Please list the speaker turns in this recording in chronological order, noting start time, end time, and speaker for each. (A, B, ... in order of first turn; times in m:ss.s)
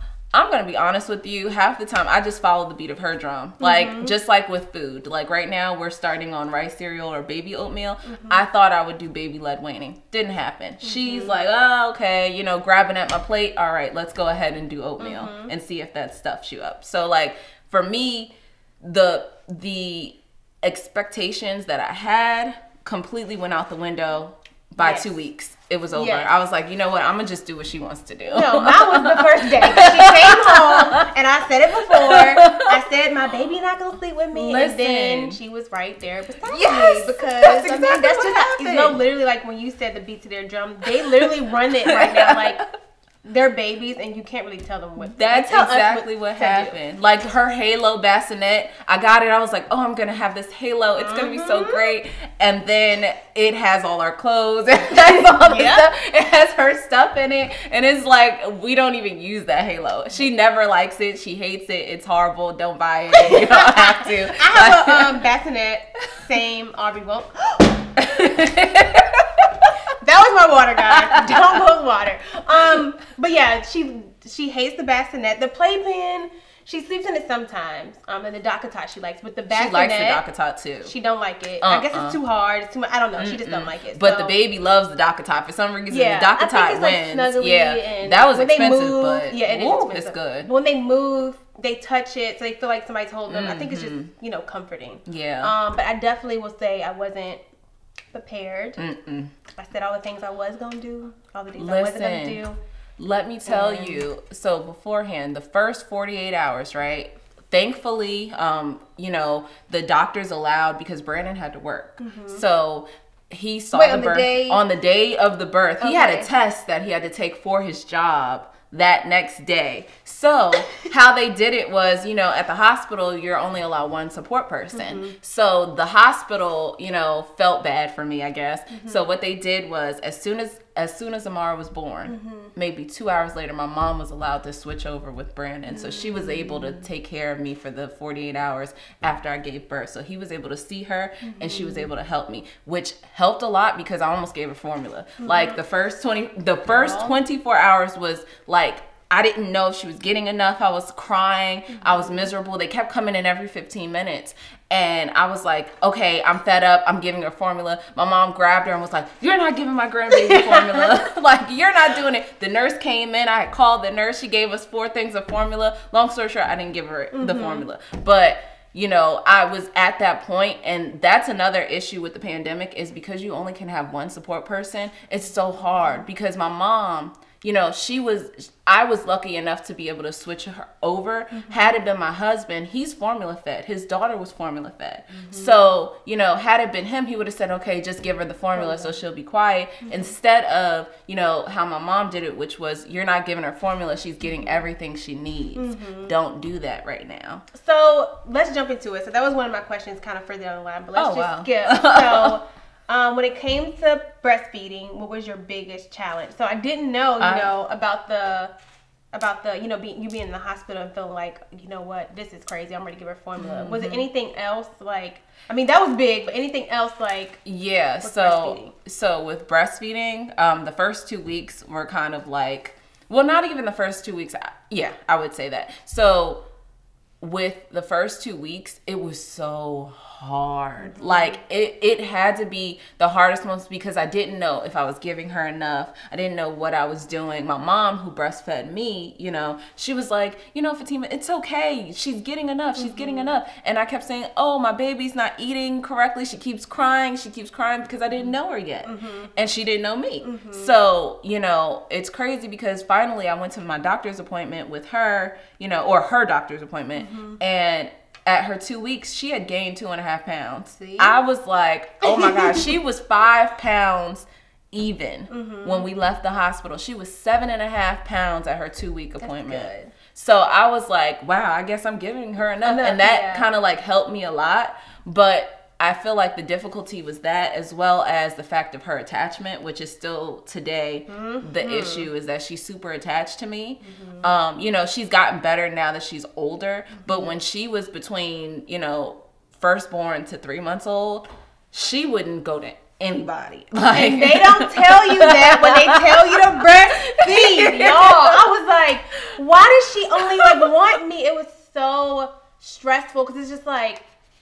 0:00.3-0:31.1 A
0:03.6-0:04.2 B
0:08.0-0:08.4 B
0:10.8-0:11.4 B
0:15.0-0:15.5 B
0:24.8-0:25.1 B
0:25.9-0:26.3 B
0:28.3-0:42.6 B
0:31.8-0:32.8 A
0:34.3-0:35.4 A
0:36.4-0:39.0 A
0:41.0-0:42.7 A
0:43.2-0:46.8 B
0:45.0-1:05.2 A
0:51.0-0:51.9 B
0:55.0-0:55.9 B
1:03.1-1:07.9 B
1:08.0-1:09.7 A
1:09.9-1:20.2 B
1:10.9-1:11.6 A
1:19.5-1:20.9 A
1:20.8-1:24.4 B
1:21.6-1:22.2 A
1:23.1-1:30.5 A
1:25.9-1:37.4 B
1:33.3-1:34.1 A
1:35.0-1:35.5 A
1:38.1-1:38.8 B
1:38.8-1:39.3 A
1:39.6-1:42.6 B
1:41.5-1:42.4 A
1:43.0-3:17.4 A
1:43.4-1:44.0 B
1:52.0-1:52.4 B
1:53.7-1:54.6 B
1:55.8-1:56.3 B
2:04.7-2:05.2 B
2:08.7-2:09.0 B
2:12.1-2:12.5 B
2:15.7-2:16.8 B
2:21.2-2:21.9 B
2:25.2-2:25.6 B
2:26.7-2:27.1 B
2:31.7-2:32.3 B
2:40.1-2:40.9 B
2:47.1-2:47.7 B
3:01.3-3:01.6 B
3:05.1-3:05.6 B
3:08.5-3:08.9 B
3:09.8-3:10.1 B
3:15.5-3:16.1 B
3:17.5-3:28.5 B
3:21.0-3:22.4 A
3:27.2-3:27.5 A
3:29.1-3:37.4 B
3:33.4-3:34.1 A
3:37.4-3:46.4 A
3:38.0-3:38.7 B
3:47.2-4:58.7 A
3:50.8-3:51.4 B
4:02.8-4:03.3 B
4:08.8-4:09.3 B
4:10.2-4:10.7 B
4:17.0-4:17.4 B
4:20.7-4:21.2 B
4:22.0-4:22.7 B
4:25.3-4:25.9 B
4:29.2-4:29.9 B
4:32.6-4:33.5 B
4:41.1-4:42.1 B
4:43.8-4:44.3 B
4:47.0-4:47.3 B
4:53.9-5:04.0 B
5:00.2-5:00.8 A